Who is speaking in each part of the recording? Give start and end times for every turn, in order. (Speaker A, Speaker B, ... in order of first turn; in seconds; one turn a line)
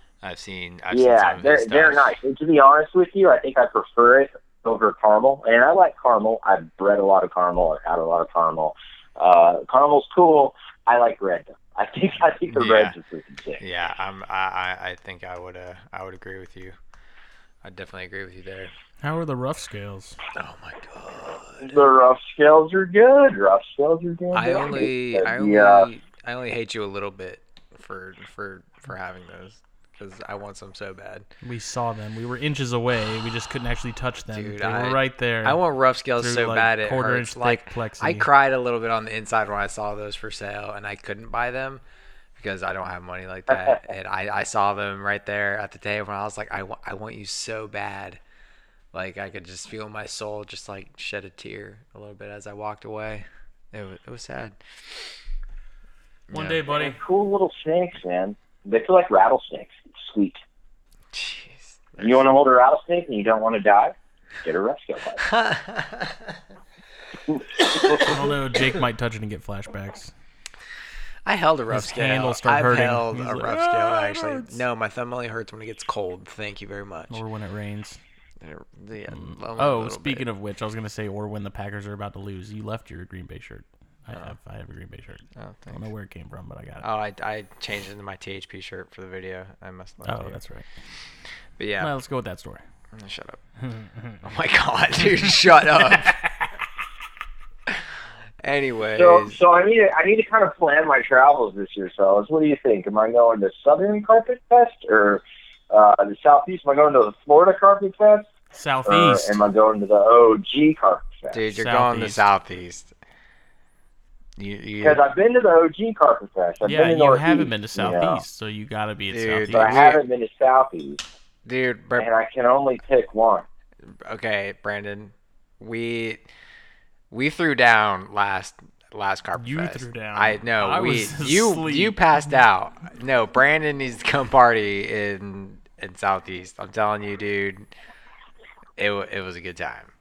Speaker A: 0.2-2.1
Speaker B: 0.9-13.6
Speaker A: 12.5-12.9
Speaker A: 13.6-16.8
Speaker A: 17.6-18.7
Speaker C: 19.0-20.2
Speaker A: 20.3-21.8
Speaker B: 21.6-25.9
Speaker A: 24.3-31.3
Speaker C: 31.4-35.6
Speaker A: 34.3-41.8
Speaker C: 36.2-38.3
Speaker A: 42.4-48.2
Speaker A: 48.9-55.1
Speaker A: 56.3-56.6
Speaker C: 56.3-57.0
Speaker B: 56.7-60.4
Speaker A: 61.1-62.2
Speaker B: 62.0-65.3
Speaker A: 65.2-66.3
Speaker C: 67.9-70.1
Speaker A: 71.2-77.2
Speaker C: 71.7-74.6
Speaker C: 77.1-78.0
Speaker A: 78.4-80.2
Speaker C: 79.1-86.8
Speaker A: 85.3-85.8
Speaker A: 86.8-90.4
Speaker C: 90.0-90.7
Speaker A: 91.6-91.9
Speaker C: 91.8-92.6
Speaker A: 92.9-93.4
Speaker C: 93.6-94.2
Speaker A: 94.2-96.2
Speaker C: 95.9-96.2
Speaker A: 98.4-99.4
Speaker B: 98.9-108.3
Speaker C: 108.5-109.4
Speaker B: 108.8-111.4
Speaker A: 111.3-112.9
Speaker C: 111.5-112.3
Speaker A: 114.4-115.0
Speaker B: 114.8-118.2
Speaker C: 116.6-119.8
Speaker A: 119.1-120.0
Speaker B: 119.5-121.0
Speaker A: 121.4-122.1
Speaker B: 122.0-123.4
Speaker A: 123.8-126.2
Speaker A: 127.1-137.7
Speaker C: 129.3-132.1
Speaker A: 138.8-139.9